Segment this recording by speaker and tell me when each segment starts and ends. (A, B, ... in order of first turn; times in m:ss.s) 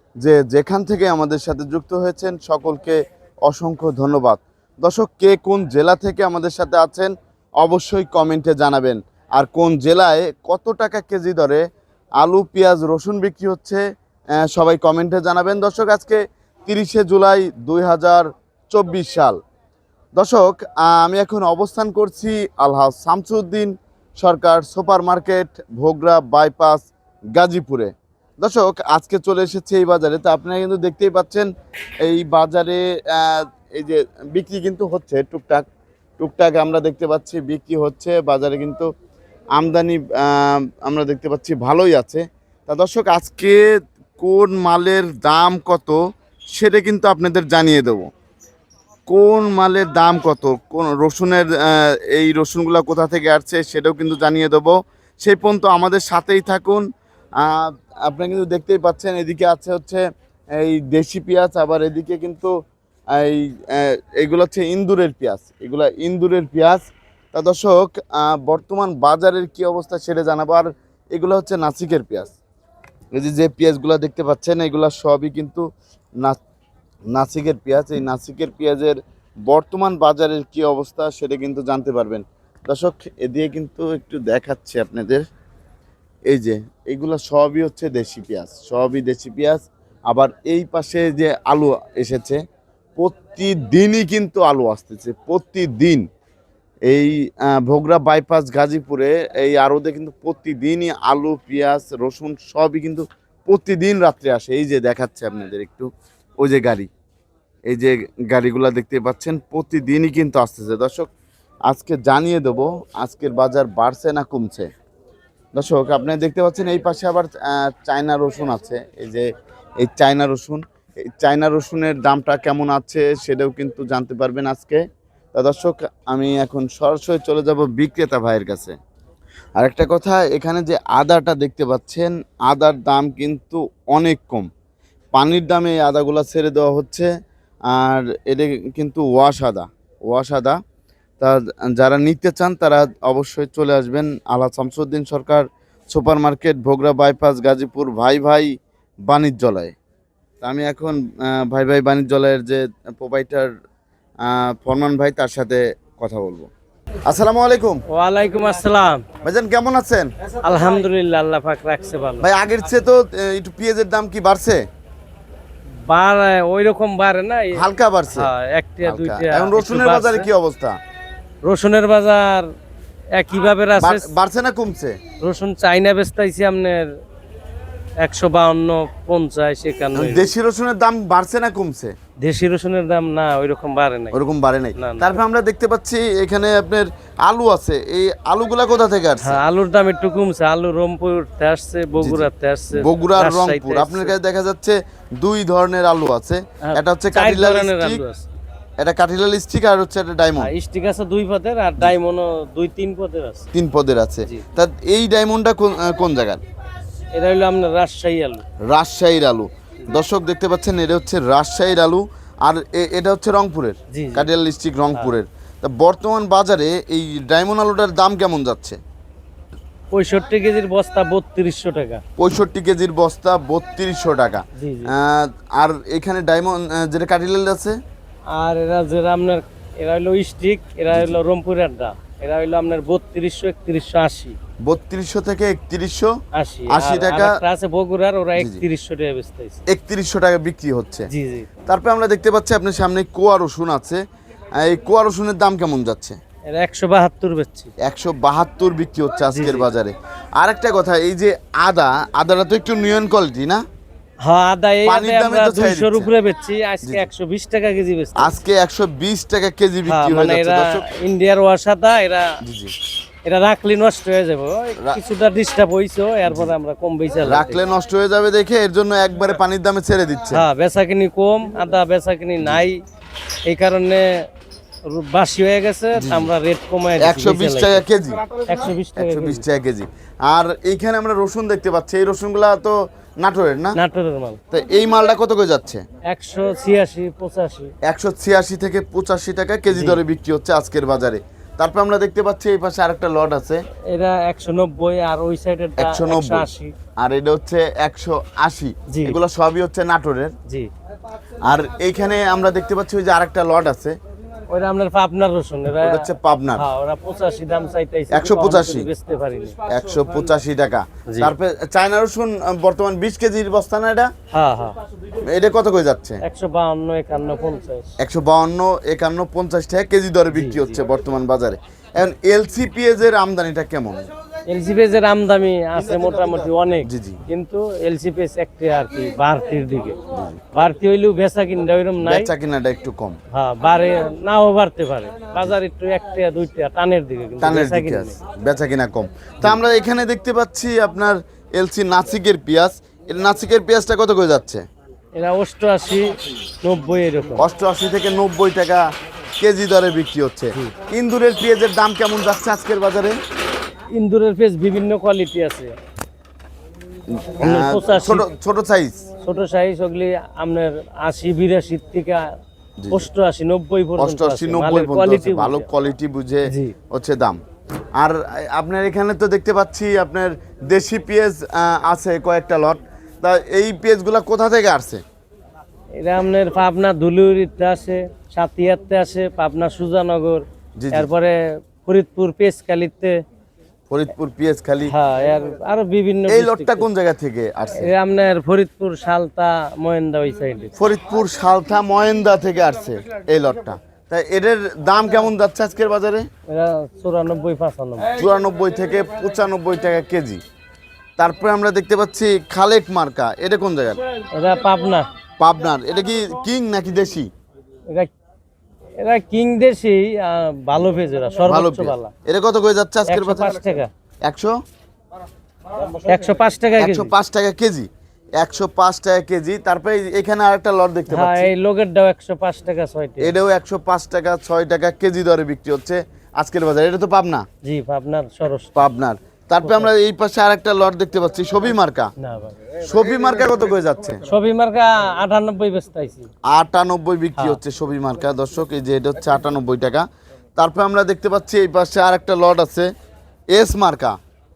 0:00.2-0:11.6 A
0:12.2-0:13.8 A
0:14.4-0:19.4 A
0:20.2-0:31.5 A
0:32.0-0:35.7 A
0:36.2-0:38.9 A
0:39.6-0:46.0 A
0:46.5-0:48.1 A
0:49.1-0:56.8 A
0:57.4-1:00.0 A
1:00.6-1:02.5 A
1:03.2-1:12.3 A
1:13.1-1:15.6 A
1:17.1-1:19.0 A
1:19.5-1:25.2 A
1:26.3-1:32.4 A
1:33.0-1:36.0 A
1:36.9-1:45.9 A
1:46.4-1:46.9 A
1:47.7-1:51.1 A
1:51.7-1:54.7 A
1:55.6-1:59.3 A
1:59.8-2:04.8 A
2:05.3-2:08.8 A
2:09.6-2:14.5 A
2:15.1-2:17.1 A
2:17.7-2:20.6 A
2:21.2-2:28.5 A
2:29.1-2:29.7 A
2:30.4-2:33.5 A
2:34.2-2:36.5 A
2:37.1-2:37.8 A
2:37.9-2:39.0 B
2:39.2-2:40.1 A
2:40.4-2:42.3 B
2:42.2-2:44.6 A
2:45.9-2:50.3 B
2:47.5-2:48.3 A
2:48.8-2:50.8 A
2:51.4-2:52.5 B
2:53.1-2:54.1 B
2:53.8-2:55.0 A
2:55.2-2:56.9 B
2:58.0-3:00.3 B
3:00.0-3:01.9 A
3:02.2-3:04.2 B
3:04.1-3:09.4 A
3:04.8-3:05.2 B
3:09.2-3:14.1 B
3:12.0-3:18.0 A
3:16.6-3:18.3 B
3:18.8-3:20.5 A
3:20.4-3:23.5 B
3:23.5-3:26.4 A
3:27.2-3:28.4 B
3:28.7-3:38.8 A
3:33.9-3:34.3 B
3:39.9-3:42.0 B
3:42.2-3:47.8 A
3:44.6-3:44.9 B
3:48.3-3:54.4 B
3:54.6-3:56.1 A
3:56.3-3:59.6 B
3:56.7-3:57.4 A
3:58.4-3:58.6 A
3:59.7-4:01.1 A
4:01.1-4:01.5 B
4:01.7-4:04.0 A
4:04.6-4:06.2 A
4:06.5-4:07.7 B
4:07.8-4:13.6 A
4:09.3-4:09.7 B
4:14.2-4:18.3 B
4:14.9-4:16.1 A
4:18.2-4:20.8 A
4:19.9-4:22.4 B
4:22.4-4:22.7 A
4:23.2-4:27.6 B
4:26.3-4:26.5 A
4:27.2-4:30.4 A
4:30.3-4:32.8 B
4:33.4-4:34.3 B
4:34.9-4:37.8 B
4:36.0-4:36.3 A
4:37.0-4:38.2 A
4:38.4-4:39.4 B
4:39.0-4:43.8 A
4:43.8-4:44.4 B
4:44.5-4:45.8 A
4:46.1-4:47.7 B
4:47.8-4:53.6 A
4:49.7-4:50.0 B
4:53.9-4:56.7 B
4:55.8-5:00.3 A
4:58.9-4:59.2 B
5:01.4-5:04.0 A
5:04.5-5:09.6 B
5:05.8-5:06.6 A
5:08.1-5:08.9 A
5:09.7-5:14.1 A
5:14.3-5:14.8 B
5:15.2-5:16.2 A
5:16.2-5:17.9 B
5:18.0-5:24.1 A
5:20.3-5:20.8 B
5:24.5-5:30.0 B
5:26.8-5:27.2 A
5:30.1-5:30.4 A
5:30.5-5:32.3 B
5:32.0-5:33.2 A
5:33.3-5:38.2 B
5:37.4-5:44.6 A
5:45.2-5:47.4 B
5:47.4-5:48.8 A
5:49.4-5:53.2 A
5:53.9-5:55.8 B
5:57.2-5:59.1 A
5:57.4-5:58.3 B
5:59.2-6:02.3 B
6:02.8-6:03.1 A
6:02.9-6:05.7 B
6:04.0-6:07.4 A
6:06.5-6:06.8 B
6:08.0-6:15.0 A
6:16.0-6:23.2 B
6:20.8-6:21.1 A
6:23.9-6:24.9 A
6:24.9-6:26.9 B
6:26.3-6:27.9 A
6:27.8-6:30.7 B
6:30.8-6:36.3 A
6:36.5-6:38.1 B
6:38.1-6:40.4 A
6:41.2-6:44.0 A
6:44.3-6:45.1 B
6:45.4-6:47.3 A
6:49.0-6:52.1 B
6:51.5-6:53.6 A
6:53.1-6:53.9 B
6:54.3-6:54.5 A
6:55.9-6:57.1 B
6:56.8-6:57.9 A
6:58.4-7:01.5 A
7:01.1-7:03.4 B
7:03.2-7:07.5 A
7:07.6-7:08.8 B
7:08.8-7:12.1 A
7:09.6-7:09.9 B
7:12.2-7:12.6 B
7:12.8-7:14.2 A
7:14.2-7:16.3 B
7:16.5-7:20.1 A
7:20.6-7:22.9 A
7:23.5-7:24.2 A